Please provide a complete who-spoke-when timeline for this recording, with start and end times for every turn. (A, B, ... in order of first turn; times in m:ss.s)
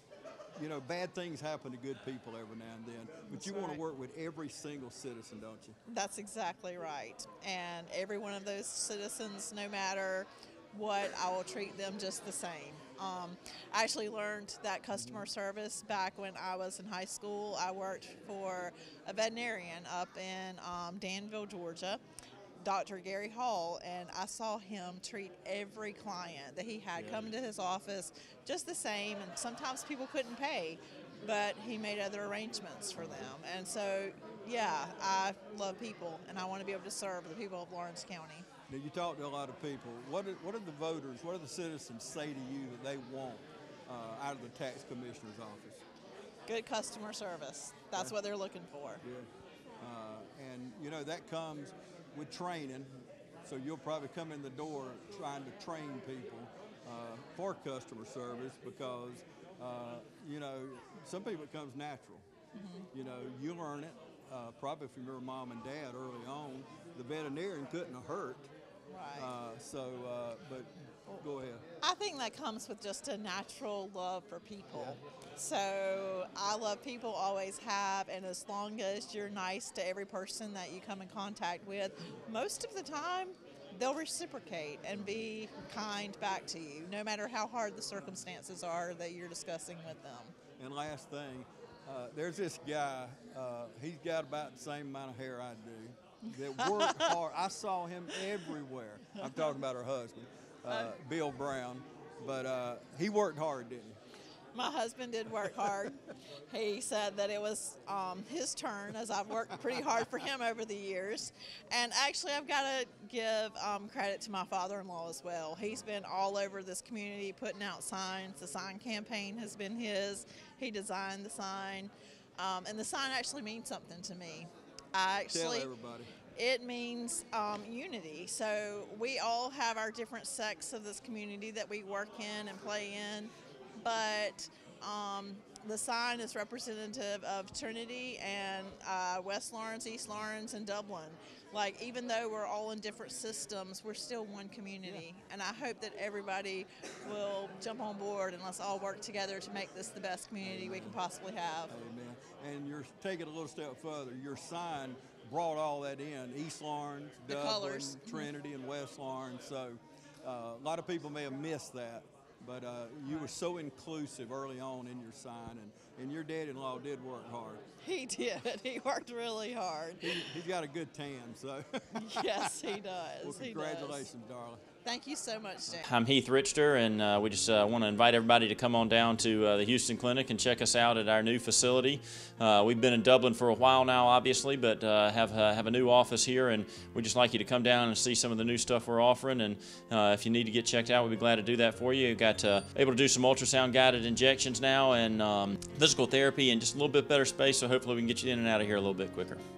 0:00.6-0:05.8 A
0:03.3-0:03.8 B
0:05.9-0:22.0 B
0:14.9-0:15.3 A
0:22.6-0:38.5 B
0:27.0-0:27.3 A
0:33.0-0:33.3 A
0:38.7-0:45.8 A
0:46.5-0:49.0 B
0:49.0-0:49.3 A
0:49.8-1:02.3 A
1:02.5-1:02.9 B
1:02.9-1:08.5 A
1:08.9-1:09.3 B
1:09.2-1:11.6 A
1:11.8-1:30.4 B
1:30.6-1:44.0 A
1:36.6-1:37.1 B
1:44.5-2:05.7 B
2:05.3-2:06.1 A
2:06.4-2:31.7 B
2:30.4-2:31.0 A
2:31.7-2:47.6 A
2:37.3-2:38.3 B
2:47.8-2:50.3 B
2:50.0-2:52.5 A
2:52.0-2:54.1 B
2:53.2-2:54.6 A
2:54.8-2:55.9 B
2:55.8-3:19.4 C